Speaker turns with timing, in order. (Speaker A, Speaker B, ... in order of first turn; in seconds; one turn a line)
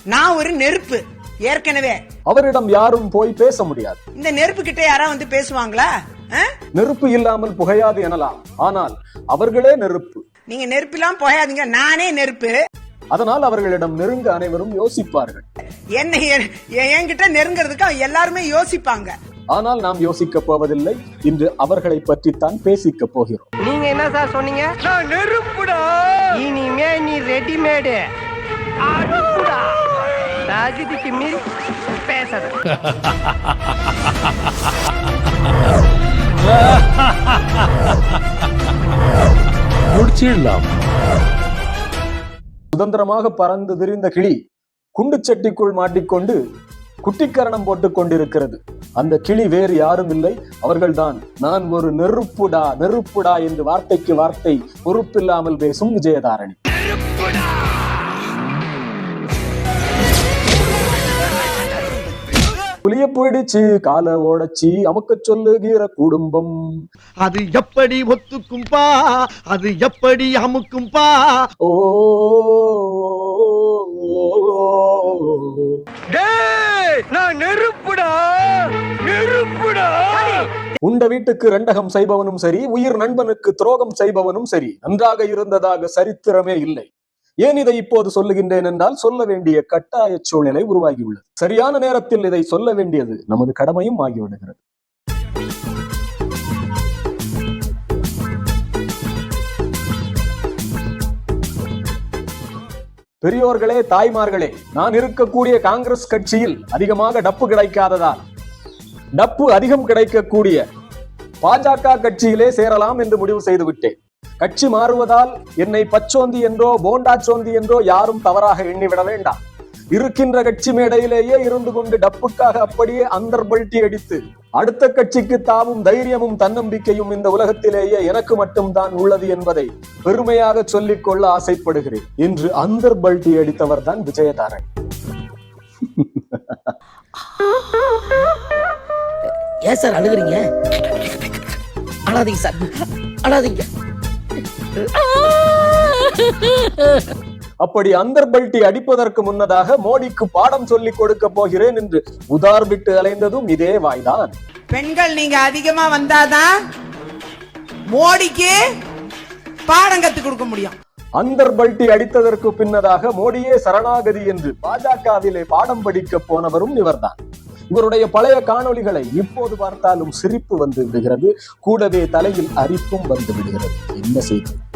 Speaker A: 0.1-2.0
Speaker B: 2.3-4.0
Speaker A: 4.2-6.4
Speaker B: 6.7-10.2
Speaker A: 10.5-12.5
Speaker B: 13.1-15.4
Speaker A: 16.0-19.1
Speaker B: 19.5-23.4
Speaker C: 23.6-28.0
Speaker C: 28.9-29.6
Speaker C: 30.5-31.4
Speaker C: 32.1-32.5
Speaker B: 42.7-44.4
Speaker B: 45.0-46.4
Speaker B: 47.0-56.5
Speaker B: 62.8-66.6
Speaker D: 67.2-69.0
Speaker D: 69.5-71.3
Speaker B: 71.6-75.8
Speaker C: 77.2-78.0
Speaker B: 80.8-86.9
Speaker B: 87.4-94.6
Speaker B: 103.2-108.2
Speaker B: 109.2-110.6
Speaker B: 111.4-119.4
Speaker B: 119.9-134.6
Speaker B: 136.0-136.7
Speaker E: 139.6-140.4
Speaker E: 142.1-142.7
Speaker E: 143.2-143.6
Speaker B: 147.6-154.3
Speaker A: 154.7-156.5
Speaker A: 157.9-158.6
Speaker A: 159.7-160.7
Speaker B: 161.2-167.2
Speaker B: 167.7-174.6